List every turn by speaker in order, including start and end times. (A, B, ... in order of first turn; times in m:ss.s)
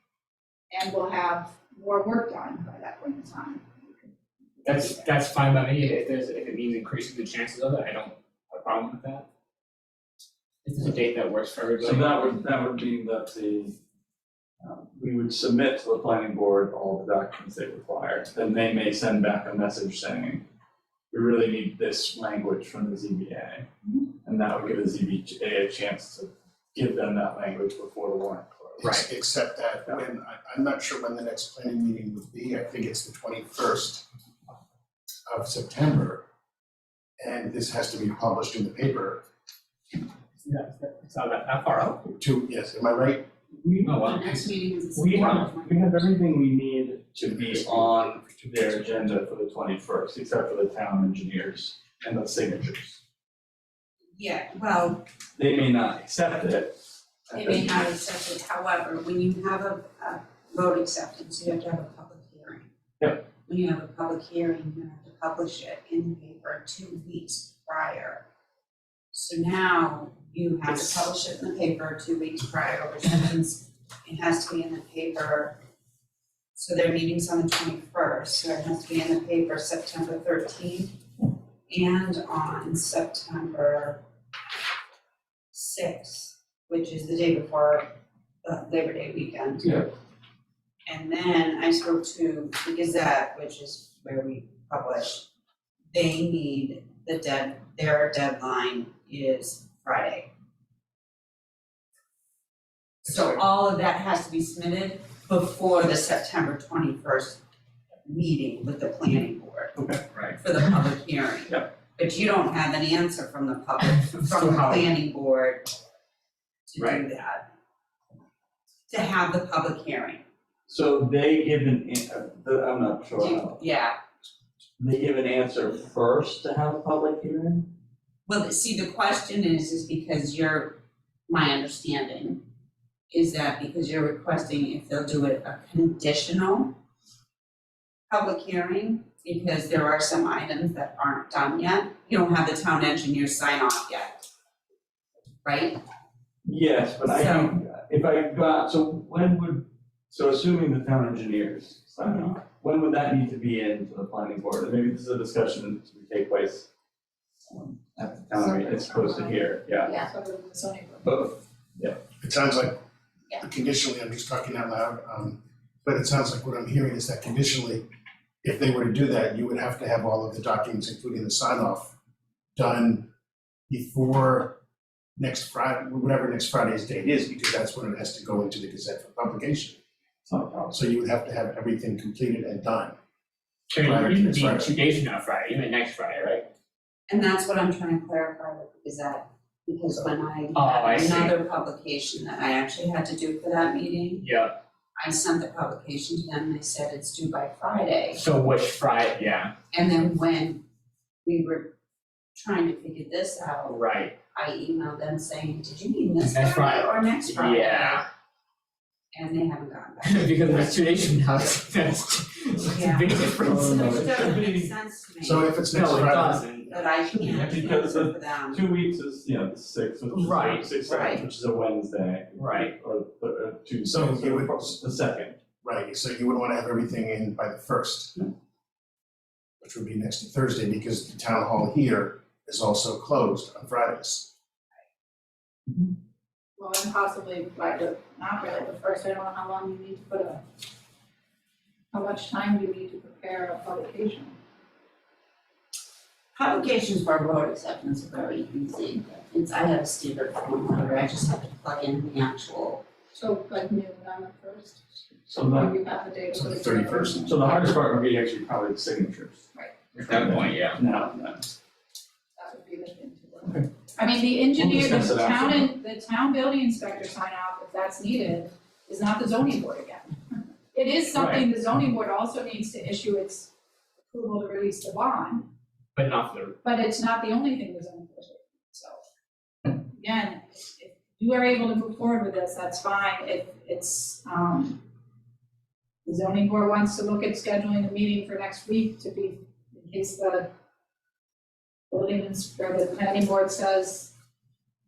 0:00.7-0:03.9 A
0:04.6-0:09.2 B
0:10.6-0:12.4 B
0:11.8-0:13.8 C
0:14.6-0:20.4 C
0:21.1-0:23.7 C
0:24.2-0:29.0 C
0:28.8-0:29.1 B
0:28.9-0:34.0 D
0:35.3-0:36.2 D
0:37.2-0:39.2 D
0:40.4-0:42.0 B
0:42.1-0:43.3 D
0:43.5-0:44.1 C
0:43.8-0:44.5 B
0:44.0-0:46.0 E
0:45.0-0:53.0 C
0:47.4-0:48.7 D
0:54.2-0:55.0 E
0:55.4-0:56.8 C
0:57.3-0:57.9 C
0:57.3-1:02.7 E
1:03.4-1:08.2 E
1:09.1-1:15.6 E
1:16.6-1:21.0 E
1:21.7-1:24.0 E
1:25.5-1:27.9 E
1:28.4-1:29.8 E
1:29.6-1:29.9 C
1:30.9-1:35.3 E
1:35.9-1:40.3 E
1:43.0-1:47.4 E
1:48.0-1:49.8 E
1:49.8-1:50.0 C
1:50.1-1:50.4 B
1:50.4-1:55.7 E
1:54.2-1:54.8 B
1:56.7-1:57.4 E
1:58.9-2:00.2 E
2:00.7-2:03.6 C
2:03.2-2:04.0 E
2:04.8-2:07.7 C
2:08.3-2:12.4 E
2:13.1-2:16.7 E
2:18.1-2:24.2 E
2:25.4-2:25.8 E
2:26.4-2:36.7 C
2:27.0-2:27.6 E
2:37.5-2:40.0 C
2:38.4-2:41.3 A
2:41.0-2:42.0 C
2:42.2-2:42.8 D
2:43.4-2:47.8 D
2:48.4-2:51.9 D
2:52.6-2:53.0 D
2:53.7-2:54.5 D
2:55.2-2:59.8 D
3:00.3-3:00.8 C
3:00.7-3:03.0 D
3:03.7-3:06.4 B
3:03.8-3:04.7 D
3:07.1-3:14.2 E
3:10.6-3:11.4 B
3:14.2-3:14.6 B
3:15.0-3:18.2 E
3:18.2-3:19.5 B
3:19.7-3:20.6 E
3:21.2-3:21.7 E
3:22.4-3:23.8 E
3:23.7-3:24.2 B
3:24.3-3:28.0 E
3:26.2-3:28.0 B
3:29.1-3:30.9 E
3:30.0-3:34.0 B
3:32.6-3:35.6 E
3:33.7-3:34.7 C
3:35.2-3:36.4 D
3:35.7-3:36.9 B
3:36.7-3:38.7 E
3:37.2-3:45.4 C
3:40.1-3:40.7 B
3:40.9-3:41.2 E
3:42.4-3:42.7 B
3:43.9-3:44.8 D
3:45.6-3:48.3 D
3:49.6-3:54.3 D
3:56.6-4:00.4 A
4:01.9-4:04.4 A
4:06.4-4:12.8 E
4:13.1-4:17.5 A
4:15.3-4:15.7 C
4:16.3-4:17.5 D
4:17.3-4:19.4 C
4:20.0-4:20.8 B
4:20.1-4:21.5 C
4:22.4-4:30.2 A
4:24.6-4:25.7 C
4:30.7-4:33.5 A
4:31.2-4:31.4 B
4:34.1-4:35.4 A
4:36.0-4:36.6 B
4:36.6-4:39.0 A
4:39.7-4:44.8 A
4:46.0-4:50.5 A
4:51.9-4:54.1 A